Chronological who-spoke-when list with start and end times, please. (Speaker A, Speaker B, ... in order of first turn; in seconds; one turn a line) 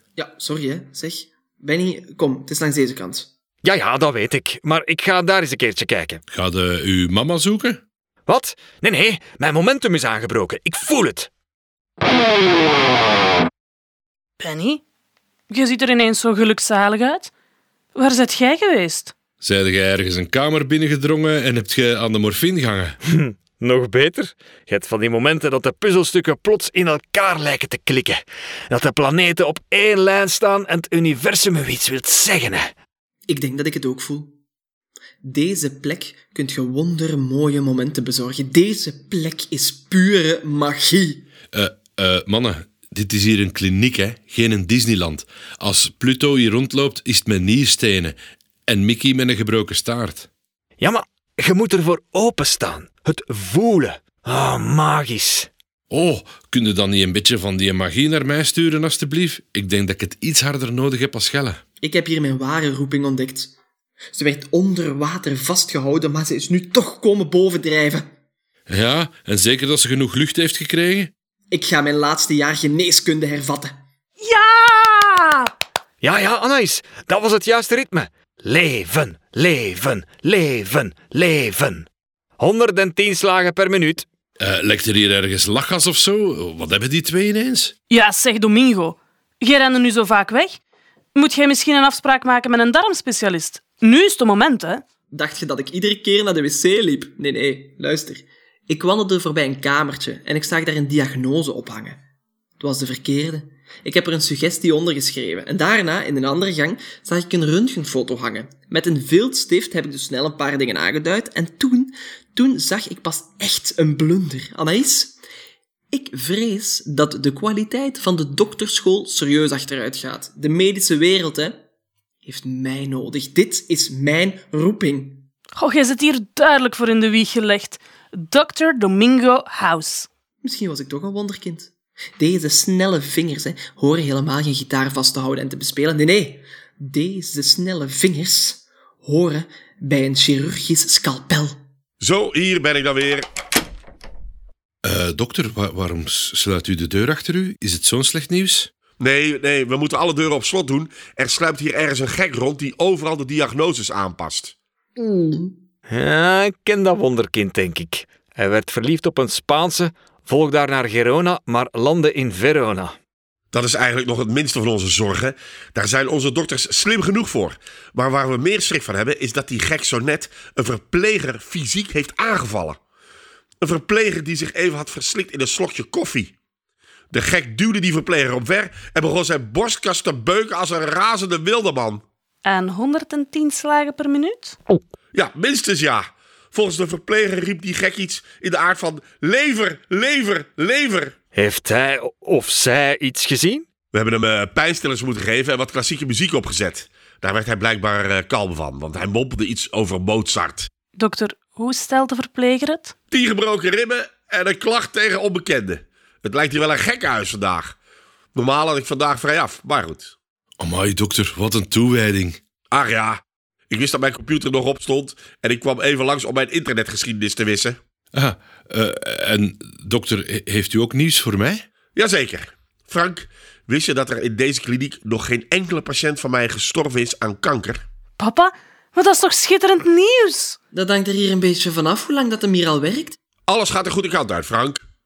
Speaker A: 0.1-3.3
Speaker B: 3.6-6.2
Speaker C: 6.3-7.8
Speaker B: 8.3-11.3
Speaker D: 14.4-14.8
Speaker D: 15.5-17.3
Speaker D: 17.9-19.1
Speaker C: 19.4-23.0
Speaker B: 23.0-32.7
Speaker A: 33.3-34.3
Speaker A: 35.2-41.2
Speaker C: 41.5-50.3
Speaker B: 50.8-55.5
Speaker C: 55.9-61.6
Speaker A: 61.8-63.5
Speaker A: 64.1-68.0
Speaker C: 68.7-71.1
Speaker A: 71.5-73.7
Speaker D: 74.2-75.5
Speaker B: 76.0-81.8
Speaker B: 82.4-84.0
Speaker C: 84.4-87.7
Speaker D: 87.9-90.5
Speaker D: 91.1-94.8
Speaker A: 95.1-102.0
Speaker A: 102.6-115.2
Speaker A: 115.9-121.6
Speaker A: 122.2-125.2
Speaker D: 125.6-130.1
Speaker A: 130.4-141.6
Speaker E: 142.0-143.2
Speaker C: 144.8-148.7
Speaker E: 149.0-154.5
Speaker A: 154.9-155.5
Speaker B: 155.9-162.9
Speaker E: 163.5-172.8
Speaker E: 173.6-176.3
Speaker E: 177.1-182.0
Speaker D: 182.4-184.6
Speaker E: 185.1-191.1
Speaker B: 191.3-193.6
Speaker E: 193.9-200.7
Speaker D: 200.9-202.9
Speaker E: 203.1-207.8
Speaker E: 208.3-210.1
Speaker C: 210.6-212.4
Speaker E: 212.7-217.8
Speaker C: 218.1-221.6
Speaker E: 221.9-227.8
Speaker D: 228.2-230.6
Speaker A: 230.7-233.2
Speaker E: 233.5-234.8